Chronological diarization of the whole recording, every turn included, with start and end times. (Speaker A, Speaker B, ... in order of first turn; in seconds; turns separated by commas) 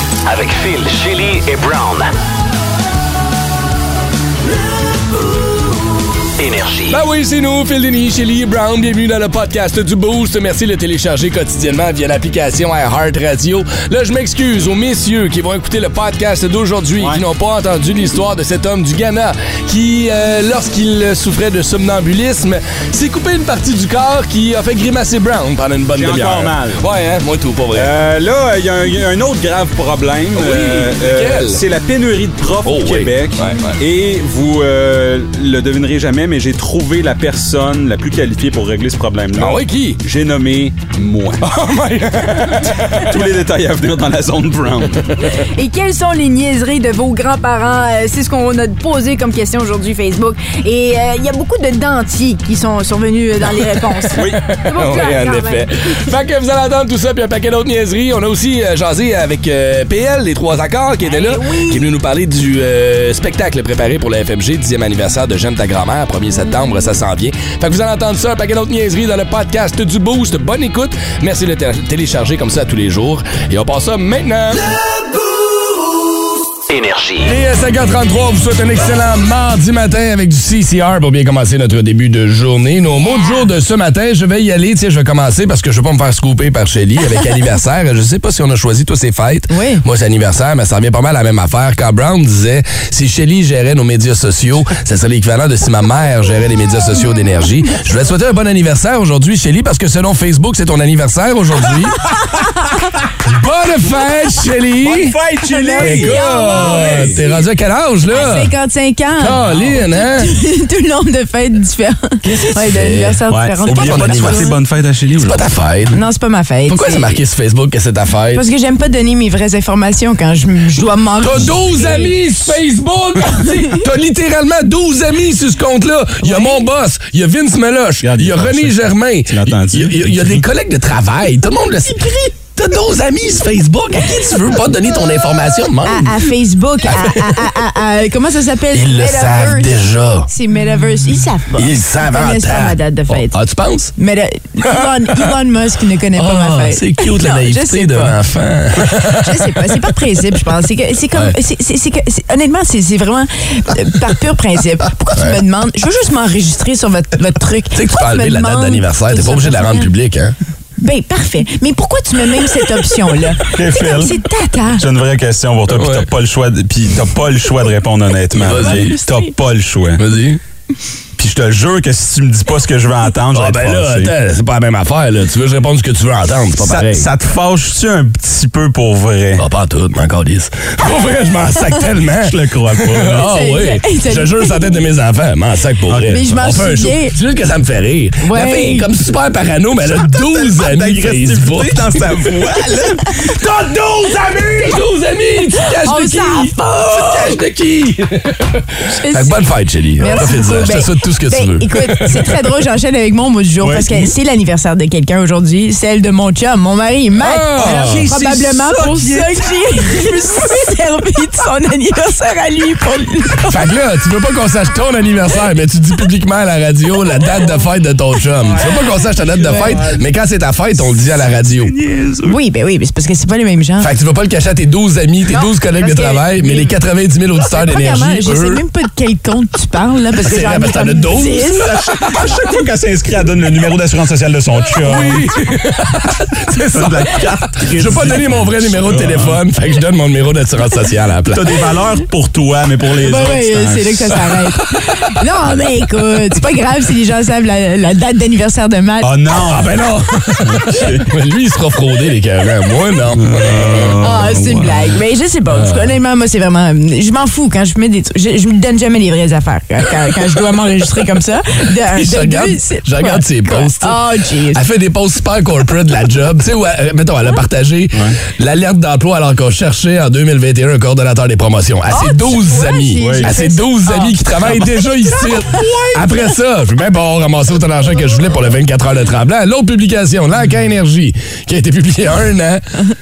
Speaker A: 0.2-2.1, Speaker A: 6.4-7.0, Speaker B: 6.9-27.9, Speaker C: 25.9-26.8, Speaker C: 27.7-41.5, Speaker B: 30.3-31.6, Speaker B: 32.6-33.8, Speaker B: 39.4-40.0, Speaker B: 41.4-43.1, Speaker C: 42.9-45.1, Speaker D: 45.3-55.6, Speaker C: 54.1-54.4, Speaker B: 54.2-74.6, Speaker D: 61.0-61.8, Speaker A: 76.7-77.4, Speaker B: 77.2-102.0, Speaker D: 89.5-89.8, Speaker B: 103.2-105.2, Speaker C: 104.8-107.2, Speaker D: 105.4-107.1, Speaker B: 105.8-108.5, Speaker D: 108.1-109.4, Speaker B: 109.2-110.3, Speaker C: 109.3-109.8, Speaker D: 109.9-114.5, Speaker B: 112.2-114.6, Speaker C: 113.3-115.4, Speaker B: 115.2-116.0, Speaker D: 115.9-117.2, Speaker B: 116.7-118.4, Speaker D: 118.3-122.1, Speaker B: 121.2-136.3, Speaker D: 126.2-126.6, Speaker C: 128.0-130.4, Speaker D: 135.8-143.4, Speaker B: 136.8-137.6, Speaker B: 138.7-140.3, Speaker B: 141.6-143.9, Speaker D: 144.0-148.2, Speaker B: 144.6-145.3, Speaker B: 146.2-149.8, Speaker D: 149.2-159.9, Speaker B: 157.7-160.3, Speaker D: 160.8-164.8, Speaker C: 163.4-164.2, Speaker C: 164.8-170.0, Speaker B: 165.7-166.1, Speaker B: 168.3-168.9, Speaker D: 168.5-169.3, Speaker B: 170.0-170.4, Speaker C: 171.2-174.1, Speaker B: 173.3-177.1, Speaker C: 176.6-179.4, Speaker B: 179.4-192.0, Speaker C: 182.2-183.3, Speaker D: 183.2-184.8, Speaker C: 185.9-186.4, Speaker D: 186.1-187.1, Speaker D: 188.2-188.9, Speaker C: 189.8-193.3, Speaker B: 193.3-202.4, Speaker D: 195.7-197.3, Speaker D: 198.9-199.3, Speaker D: 200.0-213.6, Speaker C: 203.6-204.1, Speaker B: 207.2-208.1, Speaker C: 207.6-209.4, Speaker B: 213.5-221.7, Speaker D: 219.5-219.8, Speaker C: 221.5-222.4, Speaker D: 222.2-223.9, Speaker B: 223.8-228.6, Speaker D: 225.3-226.7, Speaker D: 227.5-231.7, Speaker B: 230.2-231.6, Speaker C: 231.6-235.3, Speaker B: 234.8-241.5, Speaker C: 236.7-239.4, Speaker C: 241.3-244.2, Speaker D: 243.0-249.1, Speaker C: 249.0-249.7, Speaker B: 249.3-254.7, Speaker C: 250.4-251.1, Speaker C: 253.2-254.6, Speaker D: 254.0-264.6, Speaker B: 255.5-255.9, Speaker B: 261.9-264.0, Speaker B: 264.5-282.6, Speaker D: 271.9-274.2, Speaker C: 273.0-273.3, Speaker C: 275.4-275.8